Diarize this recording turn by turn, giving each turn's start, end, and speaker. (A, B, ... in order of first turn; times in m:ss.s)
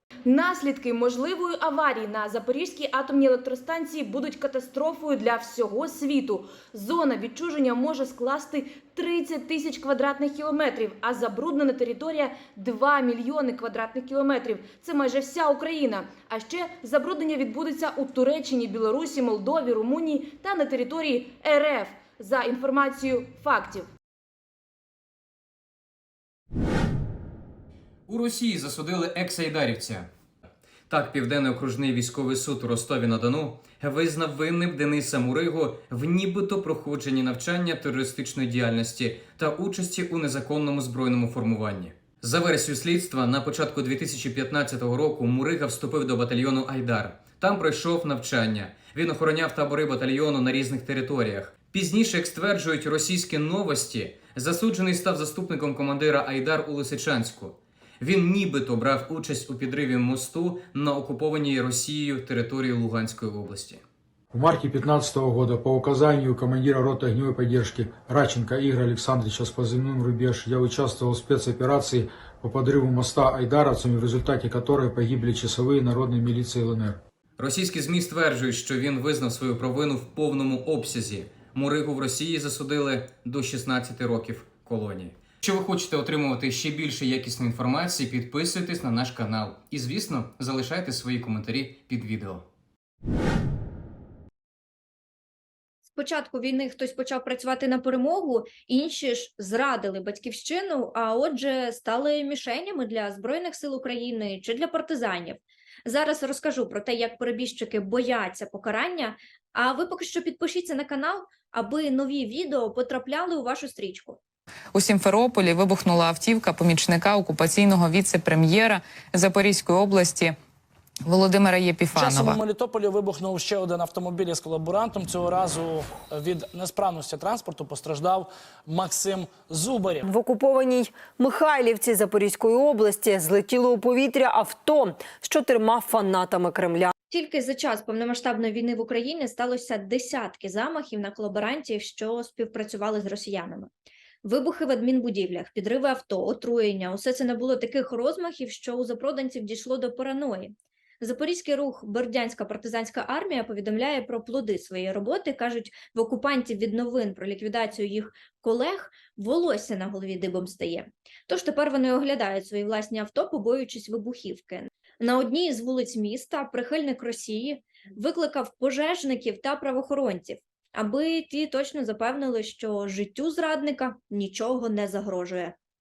0:00.2-0:23.9 A
0:28.1-0:30.1 B
0:30.9-1:03.8 B
1:04.3-1:17.0 C
1:17.4-1:32.4 B
1:35.9-1:54.2 D
1:54.7-2:00.4 E
2:01.0-2:02.4 E
2:02.4-2:10.0 F
2:10.0-2:16.9 G
2:17.1-2:23.7 D
2:24.2-2:55.5 D